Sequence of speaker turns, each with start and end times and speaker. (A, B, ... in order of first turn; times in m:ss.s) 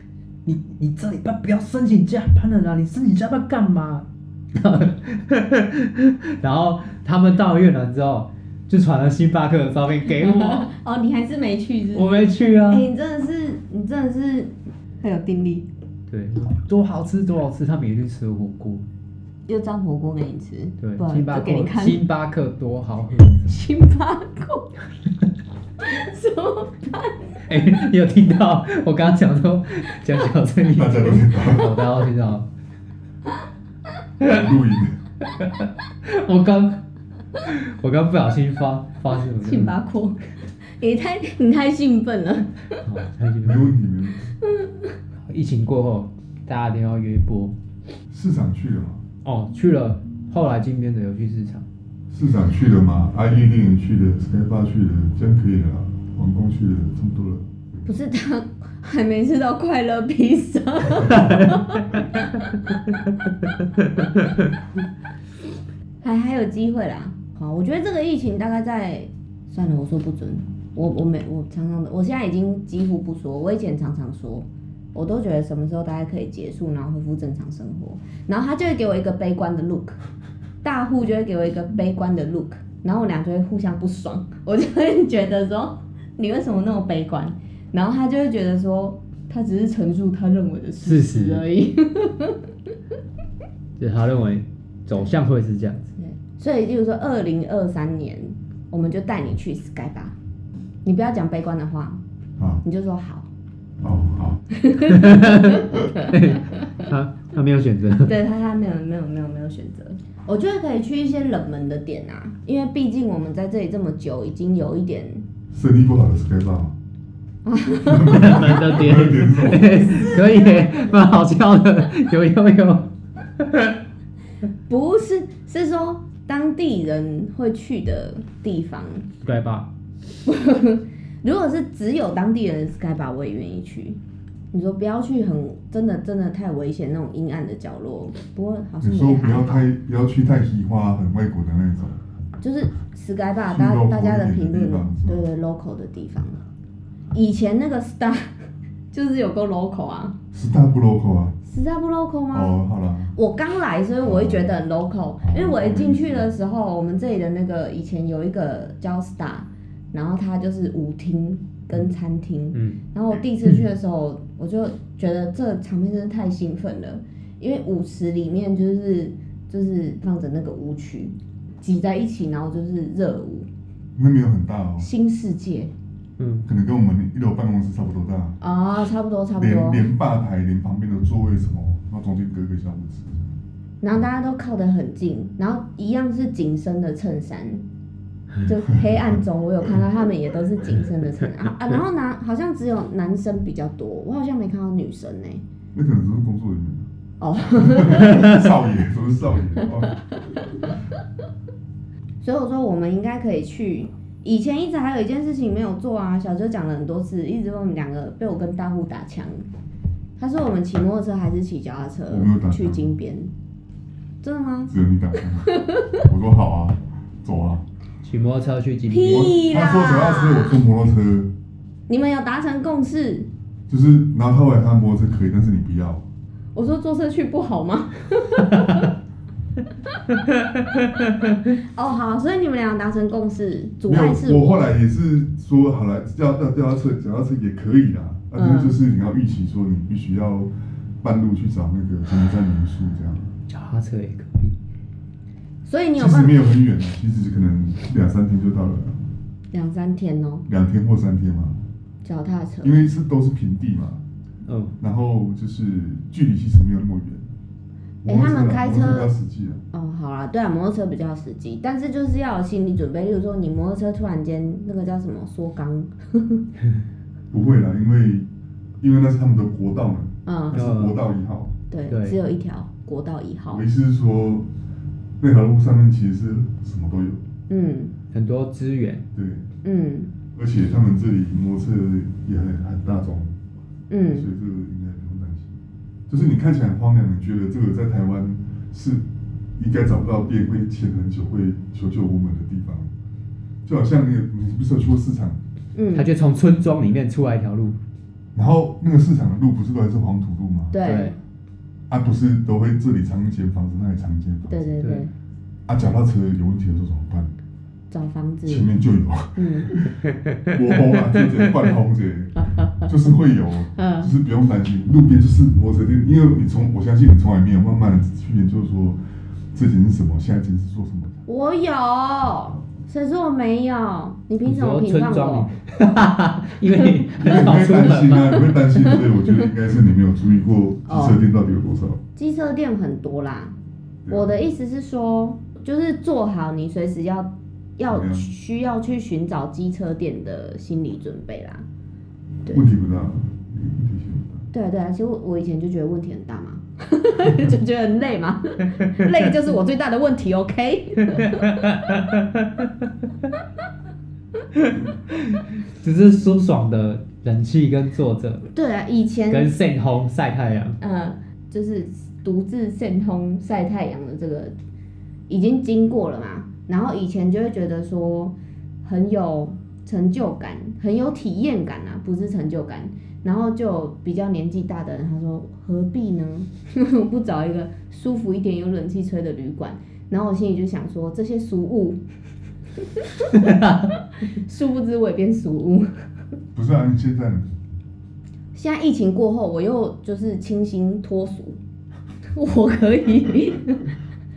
0:00.4-0:10.7 A
0:10.2-0:15.7 B
0:11.9-0:12.9 A
0:16.1-0:18.8 A
0:19.5-0:22.0 B
0:20.8-0:23.5 A
0:23.5-0:24.7 B
0:25.8-0:27.4 B
0:27.5-0:32.5 A
0:30.7-0:31.8 C
0:34.2-0:35.0 C
0:35.3-0:36.8 A
0:37.4-0:39.8 A
0:39.4-0:42.8 B
0:42.8-0:43.8 A
0:43.4-0:44.3 C
0:44.4-0:45.0 B
0:45.3-0:47.6 A
0:48.1-0:49.0 C
0:49.2-0:51.7 A
0:52.1-0:57.5 C
0:57.8-1:02.4 B
1:01.1-1:01.7 A
1:06.0-1:20.0 B
1:20.6-1:32.4 B
1:30.8-1:31.4 A
1:33.8-1:35.9 A
1:36.0-1:40.2 B
1:40.8-1:42.0 B
1:42.6-1:43.3 B
1:43.8-1:44.4 C
1:44.5-1:46.9 B
1:44.8-1:48.1 A
1:48.0-1:55.2 B
1:55.5-1:56.7 C
1:57.4-1:58.6 B
1:57.8-2:00.2 C
1:58.0-2:02.9 A
2:04.7-2:09.1 B
2:09.2-2:09.7 A
2:10.2-2:14.0 B
2:14.5-2:19.6 B
2:18.8-2:22.0 C
2:22.4-2:26.4 B
2:23.5-2:25.2 C
2:27.1-2:28.3 B
2:28.9-2:30.2 B
2:30.3-2:31.4 C
2:31.4-2:32.6 B
2:32.3-2:33.1 C
2:33.2-2:53.5 B
2:34.0-2:34.6 C
2:35.2-2:36.3 C
2:42.5-2:42.8 A
2:54.0-2:54.9 C
2:54.8-2:55.7 B
2:56.2-2:56.5 A
2:56.5-2:58.4 C
2:58.4-2:59.9 B
2:59.4-3:03.3 C
3:03.8-3:07.6 B
3:08.4-3:15.4 B
3:15.7-3:16.9 C
3:17.2-3:18.5 B
3:17.6-3:20.0 C
3:22.2-3:29.4 B
3:30.2-3:33.3 B
3:32.1-3:32.9 C
3:34.2-3:34.7 B
3:34.7-3:37.6 C
3:35.4-3:36.0 B
3:38.0-3:39.4 A
3:38.9-3:40.6 B
3:39.1-3:41.3 C
3:41.9-3:43.3 B
3:43.7-3:46.0 C
3:46.6-3:48.9 B
3:51.6-3:54.7 B
3:53.9-4:03.3 C
3:58.4-3:58.8 B
4:03.5-4:04.6 A
4:05.7-4:06.4 B
4:06.0-4:09.1 C
4:09.5-4:10.5 B
4:10.5-4:11.6 C
4:12.0-4:12.8 B
4:12.6-4:14.0 C
4:14.5-4:14.8 A
4:14.8-4:17.3 C
4:18.0-4:19.6 C
4:18.1-4:19.1 B
4:19.7-4:26.4 B
4:27.3-4:28.3 C
4:28.8-4:31.5 C
4:30.3-4:30.6 B
4:30.5-4:31.0 A
4:31.7-4:33.6 B
4:31.9-4:32.2 A
4:33.5-4:34.5 C
4:35.2-4:37.2 C
4:37.5-4:37.9 B
4:38.1-4:39.1 A
4:39.1-4:39.5 C
4:39.6-4:40.1 B
4:40.4-4:43.4 C
4:43.9-4:44.3 B
4:44.1-4:45.6 C
4:46.1-4:49.0 C
4:49.6-4:52.9 C
4:53.6-4:55.4 C
4:55.8-4:56.1 B
4:55.9-4:57.8 A
4:58.4-5:00.8 C
5:00.7-5:01.2 B
5:00.8-5:01.2 A
5:01.9-5:04.7 C
5:04.5-5:05.1 B
5:04.8-5:05.1 A
5:05.7-5:07.3 C
5:07.9-5:08.7 B
5:08.5-5:19.0 C
5:09.4-5:09.7 B
5:12.4-5:13.1 B
5:13.8-5:14.1 B
5:19.5-5:21.2 C
5:21.3-5:25.5 B
5:24.4-5:28.5 A
5:26.7-5:27.0 B
5:27.2-5:32.0 C
5:28.5-5:29.5 B
5:30.9-5:31.2 B
5:32.2-5:33.5 B
5:34.1-5:34.3 C
5:34.1-5:41.6 B
5:37.9-5:38.3 C
5:42.5-5:44.5 C
5:44.5-5:51.6 B
5:51.1-5:52.6 A
5:54.5-5:58.4 A
5:58.5-5:59.5 B
5:59.3-6:00.8 A
6:00.8-6:04.6 B
6:05.3-6:22.0 B
6:23.0-6:23.6 B
6:23.3-6:23.9 A
6:24.3-6:25.9 B
6:26.6-6:27.5 C
6:28.6-6:31.6 B
6:32.3-6:33.9 B